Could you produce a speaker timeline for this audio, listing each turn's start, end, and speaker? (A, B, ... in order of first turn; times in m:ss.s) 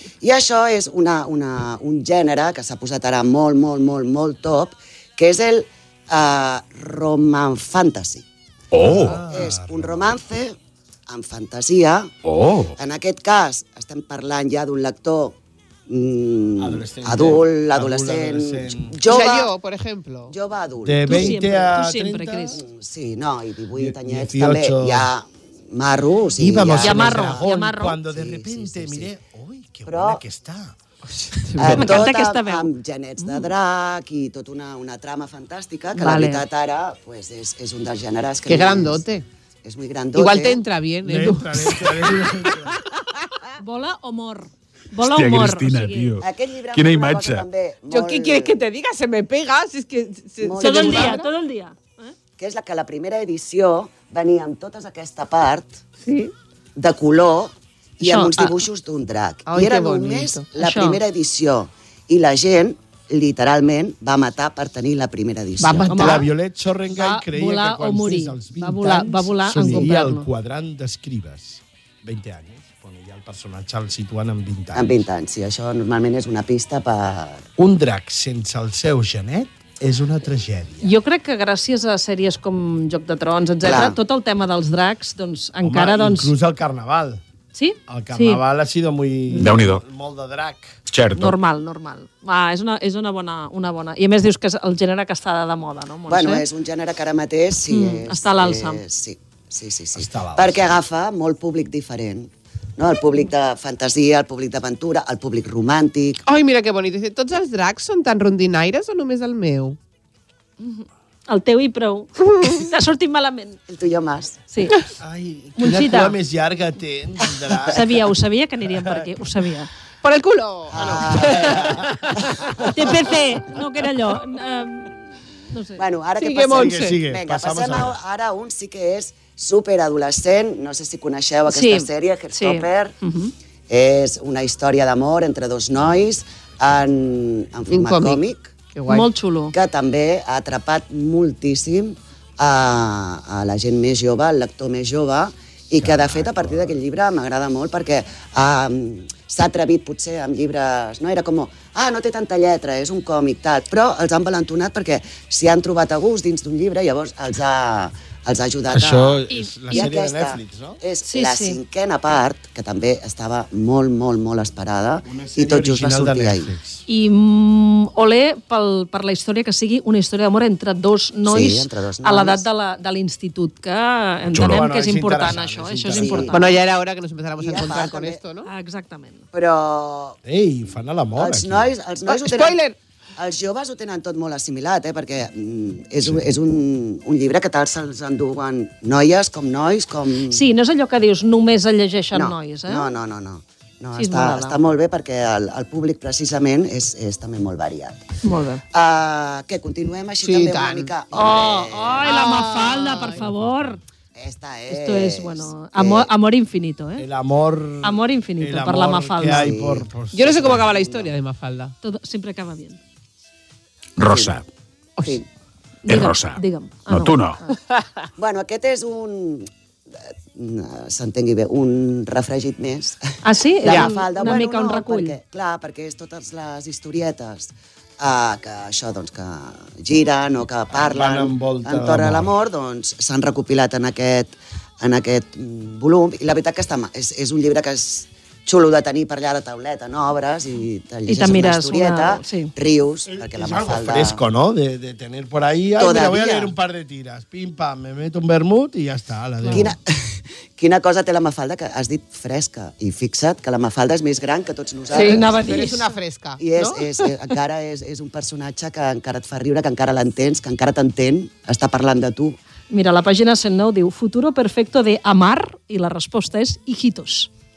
0:00.2-0:08.2 A
0:08.7-0:09.2 B
0:08.8-0:10.2 C
0:09.0-0:10.6 A
0:11.1-0:12.1 A
0:12.2-0:12.8 B
0:12.8-0:19.5 A
0:16.6-0:19.0 C
0:19.0-0:20.3 D
0:20.3-0:21.4 A
0:20.8-0:22.6 C
0:21.1-0:22.6 E
0:22.6-0:27.5 A
0:23.8-0:25.1 C
0:26.4-0:30.8 C
0:26.8-0:28.0 E
0:28.0-0:29.1 A
0:29.9-0:30.2 A
0:31.2-0:32.0 D
0:31.6-0:39.0 A
0:31.7-0:33.5 E
0:36.0-0:36.4 E
0:38.5-0:39.3 D
0:39.6-0:40.6 A
0:40.1-0:42.3 D
0:41.0-0:42.8 C
0:43.6-0:46.1 E
0:45.0-0:47.5 B
0:46.2-0:48.6 A
0:47.9-0:51.3 D
0:50.4-0:51.2 A
0:50.6-0:52.1 E
0:52.4-0:55.8 A
0:56.0-0:56.3 D
0:56.8-1:06.2 A
0:58.0-0:58.4 E
0:59.5-1:00.5 D
1:00.6-1:01.0 E
1:05.6-1:06.2 D
1:05.9-1:06.3 E
1:06.0-1:15.1 C
1:06.9-1:10.3 E
1:14.8-1:17.5 A
1:17.6-1:20.9 C
1:20.8-1:26.3 E
1:23.6-1:24.0 A
1:25.6-1:27.2 C
1:27.5-1:28.4 E
1:27.9-1:30.8 C
1:29.4-1:29.8 B
1:30.9-1:31.4 B
1:31.2-1:36.4 E
1:36.1-1:46.2 A
1:37.7-1:38.8 E
1:40.0-1:40.8 C
1:46.3-1:49.8 D
1:50.6-1:53.6 E
1:53.7-1:54.4 A
1:54.5-1:54.8 E
1:55.0-1:57.9 C
1:55.6-1:56.2 E
1:57.4-1:57.7 A
1:57.7-1:59.7 E
2:00.0-2:01.6 D
2:00.7-2:01.8 A
2:01.2-2:01.9 C
2:02.6-2:05.0 E
2:05.5-2:05.8 E
2:05.8-2:13.0 A
2:06.2-2:07.0 D
2:06.5-2:08.0 C
2:11.5-2:13.3 E
2:13.7-2:18.5 A
2:17.7-2:19.1 D
2:18.9-2:19.5 E
2:19.5-2:46.5 A
2:25.8-2:26.8 C
2:38.7-2:40.8 C
2:39.3-2:39.9 E
2:41.1-2:41.6 E
2:45.0-2:46.8 C
2:46.9-2:56.6 E
2:51.3-2:52.5 A
2:54.3-2:56.3 C
2:54.3-2:54.6 B
2:55.9-2:56.4 A
2:56.3-2:58.5 D
2:57.4-2:58.2 A
2:58.4-2:59.2 E
2:59.3-3:00.2 A
3:00.2-3:01.7 C
3:01.2-3:02.6 A
3:02.1-3:02.8 D
3:03.2-3:10.4 A
3:06.0-3:06.3 C
3:10.3-3:12.9 E
3:12.1-3:18.1 A
3:14.0-3:14.6 E
3:18.2-3:18.6 E
3:18.7-3:22.2 A
3:20.2-3:20.9 D
3:21.1-3:23.8 E
3:22.0-3:23.2 D
3:23.2-3:23.7 C
3:24.2-3:26.1 A
3:24.7-3:27.1 E
3:27.0-3:31.1 C
3:27.8-3:29.5 E
3:29.2-3:30.8 A
3:30.1-3:31.8 D
3:31.8-3:32.8 E
3:34.0-3:34.5 B
3:34.0-3:34.4 A
3:35.0-3:35.2 D
3:35.8-3:37.3 E
3:35.9-3:37.4 B
3:38.2-3:39.5 A
3:40.0-4:04.2 A
3:43.2-3:45.2 E
3:43.6-3:43.9 D
3:50.7-3:52.3 C
4:01.1-4:02.5 E
4:03.2-4:09.7 C
4:05.8-4:06.5 A
4:09.5-4:15.4 A
4:14.9-4:17.0 D
4:14.9-4:16.0 E
4:16.4-4:22.4 A
4:22.7-4:27.3 E